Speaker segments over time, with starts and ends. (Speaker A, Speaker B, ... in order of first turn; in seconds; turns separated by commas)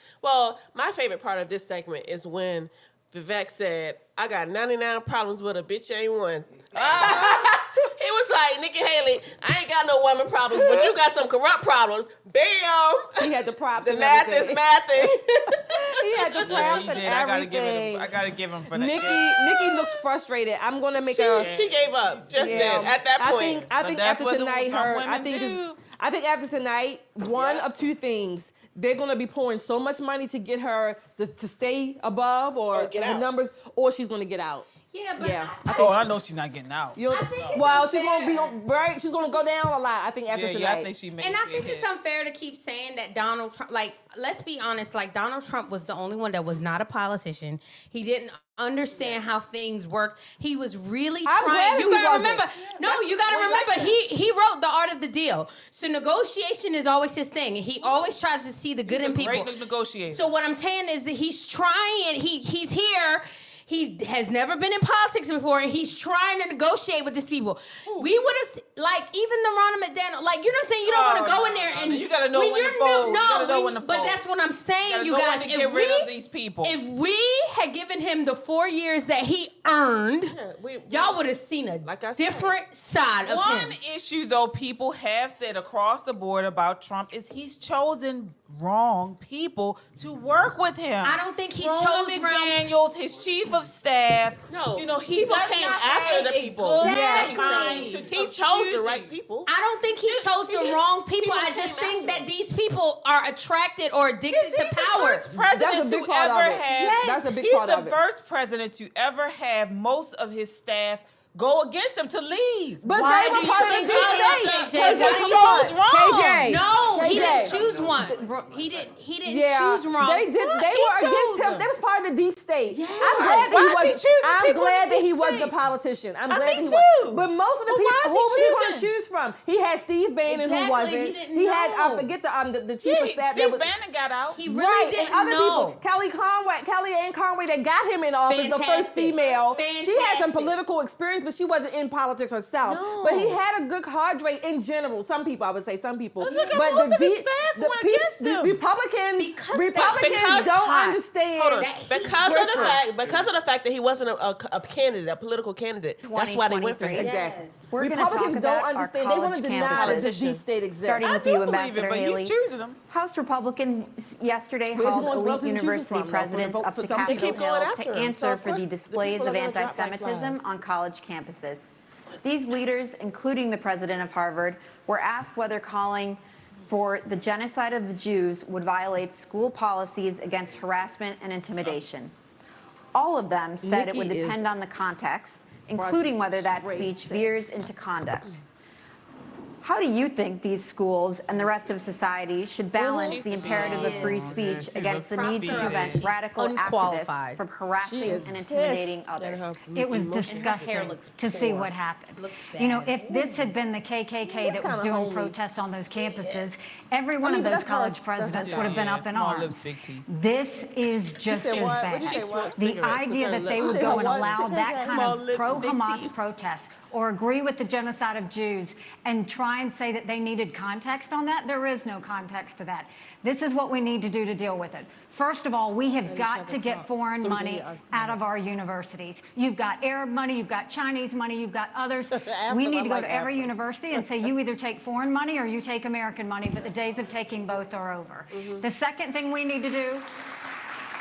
Speaker A: 0.2-16.6, Speaker B: 6.7-7.6, Speaker C: 13.2-18.1, Speaker B: 16.4-19.4, Speaker C: 18.7-21.5, Speaker A: 19.0-19.7, Speaker B: 21.0-23.0, Speaker A: 21.0-23.7, Speaker C: 22.3-34.7, Speaker B: 23.8-25.8, Speaker A: 27.3-27.7, Speaker A: 32.7-33.3, Speaker D: 34.8-36.1, Speaker C: 35.2-36.1, Speaker B: 35.7-37.7, Speaker C: 37.0-40.9, Speaker D: 37.1-38.6, Speaker B: 40.3-41.9, Speaker D: 41.2-59.5, Speaker A: 48.9-49.2, Speaker C: 51.3-53.0, Speaker A: 52.9-54.0, Speaker B: 58.9-60.2, Speaker D: 60.1-76.1, Speaker B: 67.9-68.2, Speaker B: 70.8-74.2, Speaker B: 74.8-76.8, Speaker D: 76.6-80.4, Speaker A: 80.3-81.2, Speaker D: 80.9-83.8, Speaker A: 81.8-82.6, Speaker B: 83.2-99.1, Speaker D: 91.0-92.7, Speaker A: 94.5-99.5, Speaker D: 95.7-98.3, Speaker C: 96.8-97.4, Speaker D: 99.5-105.3, Speaker A: 100.1-102.3, Speaker B: 100.2-100.4, Speaker B: 104.3-117.9, Speaker C: 105.4-108.0, Speaker D: 106.7-107.2, Speaker C: 112.8-118.2, Speaker D: 112.9-115.8, Speaker A: 113.8-114.9, Speaker D: 116.5-120.3, Speaker C: 119.3-133.7, Speaker B: 120.4-121.7, Speaker D: 122.7-123.7, Speaker B: 123.0-125.6, Speaker B: 126.3-128.9, Speaker D: 130.3-132.1, Speaker B: 132.8-134.4, Speaker D: 134.4-135.8, Speaker C: 134.5-151.6, Speaker D: 138.2-140.6, Speaker D: 142.7-143.4, Speaker B: 146.2-148.6, Speaker D: 149.2-152.8, Speaker A: 151.4-157.1, Speaker C: 152.2-152.8, Speaker E: 156.0-157.1, Speaker C: 156.9-161.3, Speaker D: 157.0-157.7, Speaker E: 157.7-160.2, Speaker B: 159.7-160.4, Speaker E: 160.8-162.3, Speaker B: 161.0-162.8, Speaker E: 162.9-171.7, Speaker C: 164.7-167.6, Speaker A: 167.0-170.5, Speaker E: 172.2-182.1, Speaker E: 182.9-188.4, Speaker C: 183.6-184.4, Speaker C: 185.7-187.3, Speaker E: 189.6-199.6, Speaker D: 192.8-197.4, Speaker A: 193.0-194.2, Speaker B: 193.4-196.1, Speaker C: 197.8-199.0, Speaker A: 199.2-201.0, Speaker F: 199.7-240.1, Speaker D: 200.2-203.1, Speaker C: 203.1-203.4, Speaker C: 204.2-205.4, Speaker C: 207.2-208.8, Speaker B: 208.4-210.1, Speaker C: 211.3-212.6, Speaker A: 211.5-216.1, Speaker C: 213.3-215.6, Speaker A: 226.1-226.9, Speaker C: 227.2-228.2, Speaker C: 232.2-233.5, Speaker A: 238.3-238.6